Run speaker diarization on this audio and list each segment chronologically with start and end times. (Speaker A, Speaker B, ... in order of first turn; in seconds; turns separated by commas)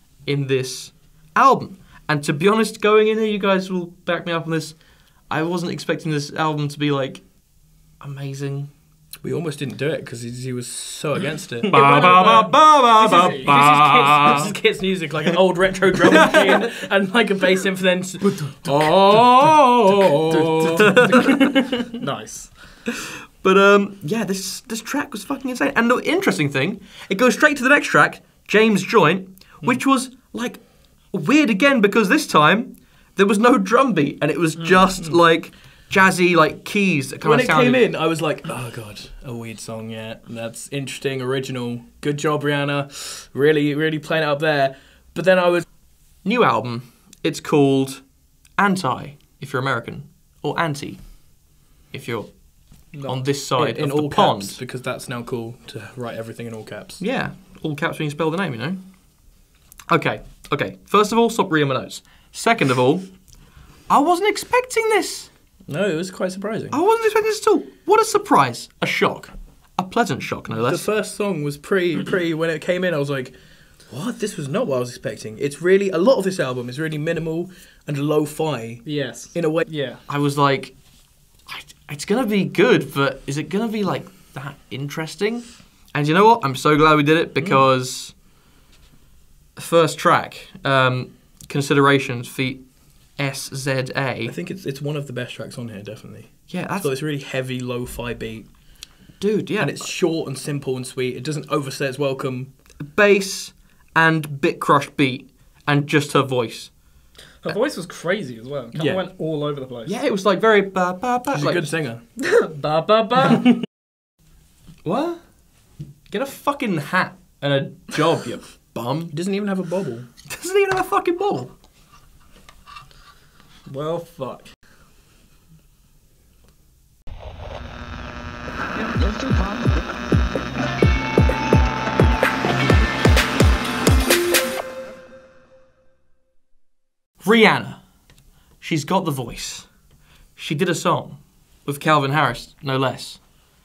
Speaker A: 0.2-8.7, Speaker B: 9.2-12.4, Speaker C: 11.7-13.6, Speaker A: 11.7-14.5, Speaker B: 13.3-21.5, Speaker A: 16.1-16.7, Speaker A: 18.7-19.5, Speaker C: 20.3-22.5, Speaker A: 20.7-21.5, Speaker A: 23.4-37.9, Speaker C: 34.6-34.8, Speaker B: 37.2-45.7, Speaker A: 46.2-54.6, Speaker C: 52.9-53.3, Speaker B: 53.5-57.0, Speaker A: 57.0-59.3, Speaker A: 59.9-63.3, Speaker A: 63.9-65.3, Speaker B: 65.7-66.8, Speaker A: 66.7-70.9, Speaker B: 70.6-79.7, Speaker C: 78.8-80.0, Speaker A: 80.1-88.2, Speaker B: 87.4-87.7, Speaker A: 89.5-94.3, Speaker B: 94.2-98.5, Speaker A: 96.5-96.9, Speaker A: 99.2-99.9, Speaker B: 99.6-102.5, Speaker A: 102.8-107.6, Speaker C: 107.4-110.0, Speaker B: 108.7-109.0, Speaker A: 109.8-111.7, Speaker B: 111.3-112.0, Speaker C: 112.2-113.6, Speaker A: 114.8-115.3, Speaker A: 116.1-119.1, Speaker B: 119.1-120.1, Speaker A: 120.3-121.5, Speaker C: 123.7-124.5, Speaker A: 137.2-137.8, Speaker A: 138.6-139.8, Speaker A: 140.3-143.4